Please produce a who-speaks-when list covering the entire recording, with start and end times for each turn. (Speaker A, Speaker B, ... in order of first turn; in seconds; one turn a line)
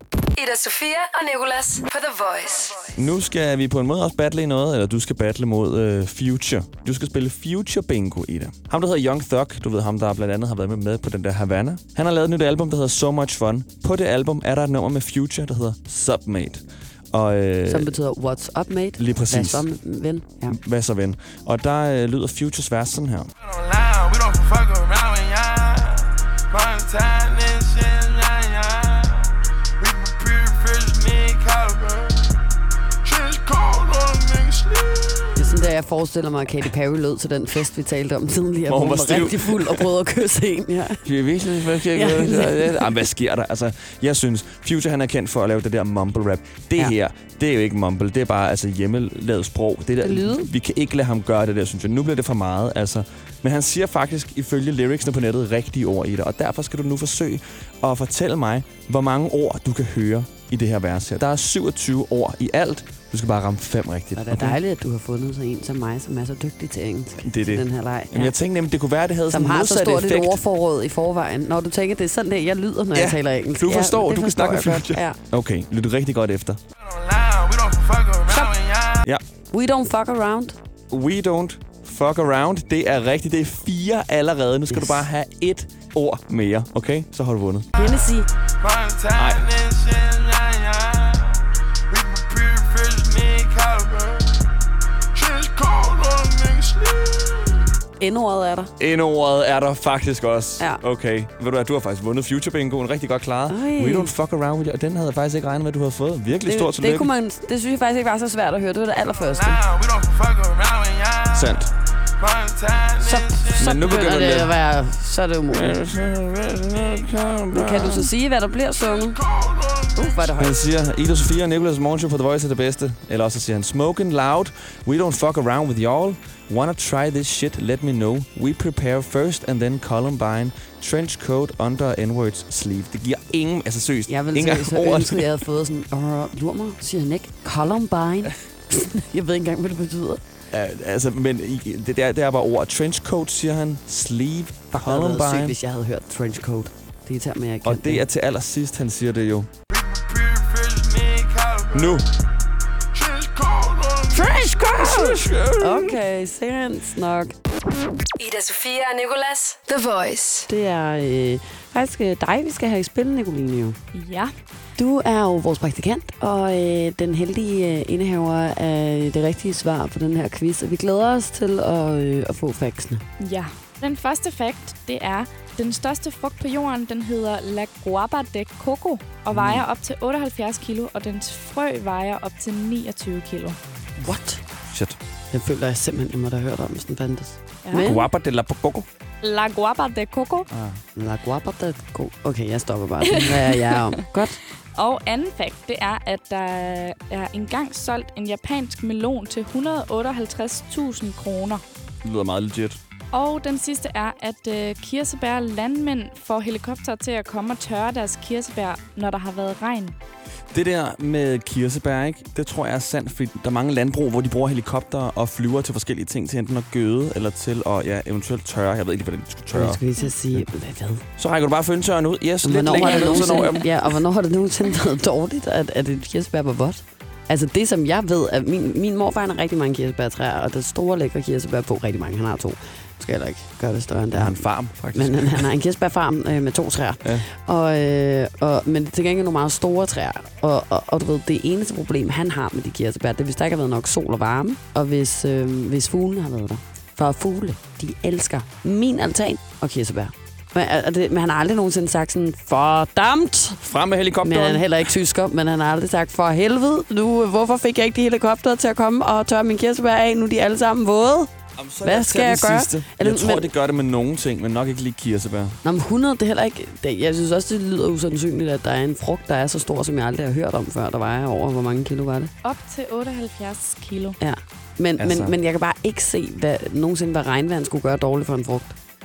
Speaker A: 0.3-2.9
Speaker B: 2.9-17.9
Speaker C: 17.7-20.6
Speaker B: 19.0-19.6
Speaker B: 20.5-23.3
Speaker D: 23.4-32.3
Speaker D: 33.0-35.4
Speaker C: 35.4-41.0
Speaker B: 38.7-39.9
Speaker B: 41.0-64.6
Speaker C: 41.6-42.9
Speaker C: 50.0-50.5
Speaker C: 64.2-68.3
Speaker B: 67.2-70.4
Speaker C: 69.3-75.2
Speaker B: 72.9-76.6
Speaker D: 76.8-79.0
Speaker C: 79.5-80.6
Speaker B: 80.9-87.7
Speaker C: 84.7-85.0
Speaker C: 87.7-88.3
Speaker D: 88.6-91.3
Speaker B: 89.2-89.5
Speaker D: 91.9-94.4
Speaker D: 95.1-97.6
Speaker C: 98.0-98.7
Speaker B: 98.8-107.1
Speaker C: 103.5-104.1
Speaker C: 106.5-109.6
Speaker D: 109.2-111.6
Speaker B: 111.3-111.7
Speaker D: 112.2-113.6
Speaker C: 113.0-115.8
Speaker B: 113.6-114.5
Speaker B: 115.5-118.1
Speaker C: 117.5-119.2
Speaker D: 119.0-120.3
Speaker C: 119.9-120.5
Speaker B: 120.4-135.3
Speaker C: 134.1-140.2
Speaker B: 140.5-145.6
Speaker C: 144.7-148.0
Speaker B: 147.6-149.5
Speaker D: 149.7-152.0
Speaker B: 151.7-152.0
Speaker D: 152.9-154.3
Speaker C: 154.1-157.3
Speaker B: 154.2-156.0
Speaker A: 158.2-160.5
Speaker C: 160.5-163.8
Speaker E: 163.9-164.3
Speaker C: 164.8-173.0
Speaker E: 173.2-183.6
Speaker B: 179.3-179.6
Speaker C: 184.0-184.4
Speaker B: 184.7-185.0
Speaker C: 185.3-188.1
Speaker B: 187.7-188.9
Speaker E: 189.2-190.5
Speaker B: 190.5-190.8
Speaker C: 190.9-194.4
Speaker E: 193.1-193.9
Speaker E: 194.8-201.6
Speaker B: 202.0-202.8
Speaker E: 203.1-209.9
Speaker B: 210.5-219.8
Speaker C: 219.5-221.0
Speaker B: 221.2-223.9
Speaker C: 222.4-253.6
Speaker B: 234.1-235.5
Speaker B: 253.6-254.8
Speaker C: 254.2-261.3
Speaker B: 261.6-265.6
Speaker C: 261.8-263.5
Speaker C: 265.6-272.3
Speaker E: 272.4-274.2
Speaker C: 274.2-278.8
Speaker B: 275.0-275.3